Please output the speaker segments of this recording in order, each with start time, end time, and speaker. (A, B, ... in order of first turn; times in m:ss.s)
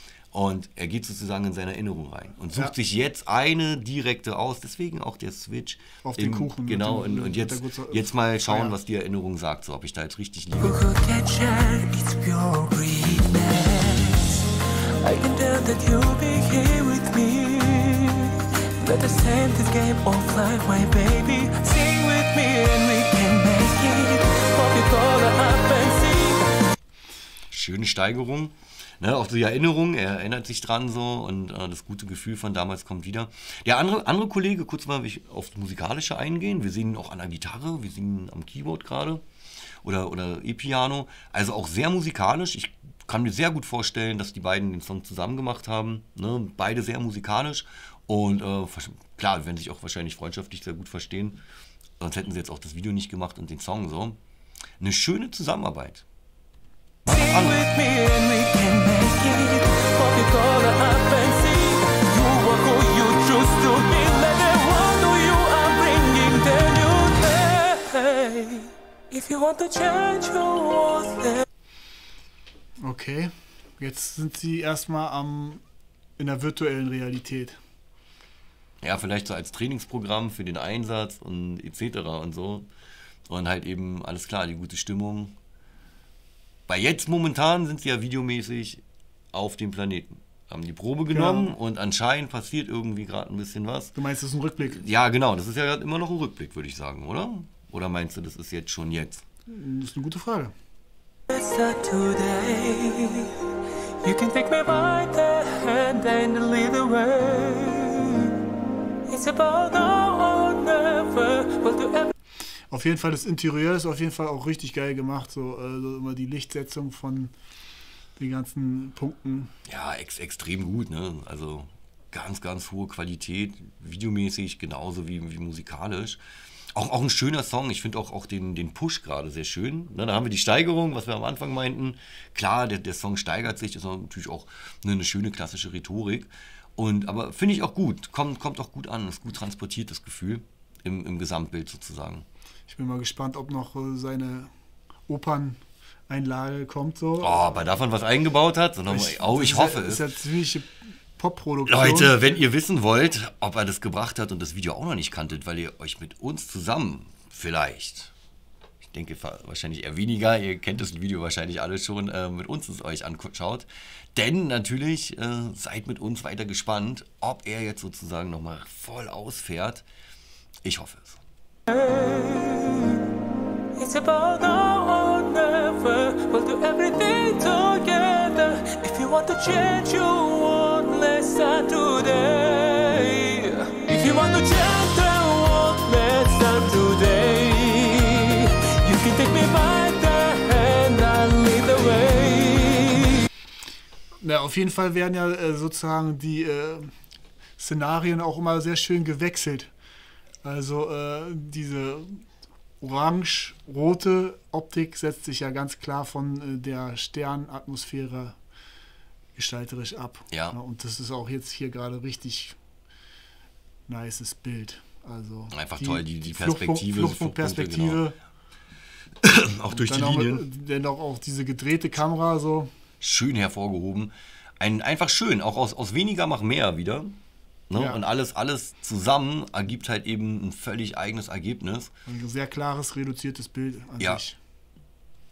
0:00.3-0:10.8 A
0:06.0-0:08.7 B
0:10.6-0:26.5 C
0:27.5-0:39.2 A
0:39.8-0:51.4 A
0:52.0-0:54.2 A
0:54.8-0:56.0 A
0:57.0-0:57.6 A
0:57.1-1:11.4 C
1:12.8-1:15.6 B
1:16.2-1:17.6 B
1:18.8-1:22.7 A
1:23.3-1:25.3 A
1:26.7-1:33.9 A
1:31.1-1:31.5 B
1:33.9-1:34.8 B
1:34.6-1:39.2 A
1:39.5-1:40.5 B
1:41.3-1:48.4 C
1:49.1-1:52.1 C
1:52.7-1:57.3 B
1:58.2-1:59.5 B
1:59.6-2:06.2 A
2:06.7-2:22.2 A
2:22.7-2:24.5 B
2:25.1-2:27.5 B
2:27.2-2:30.1 A
2:28.9-2:32.2 B
2:31.6-2:38.1 A
2:38.8-2:49.8 A
2:50.6-2:51.2 A
2:51.7-2:53.0 C
2:53.8-3:13.3 C
3:14.2-3:16.9 B
3:17.6-3:19.7 B
3:20.4-3:22.2 B
3:22.8-3:28.4 B
3:29.4-3:32.6 B
3:30.3-3:30.6 A
3:33.9-3:38.2 B
3:35.5-3:38.1 A
3:39.2-3:40.4 A
3:39.7-3:42.7 B
3:43.0-3:47.2 A
3:47.7-3:51.9 A
3:47.7-3:48.0 B
3:52.1-3:54.4 B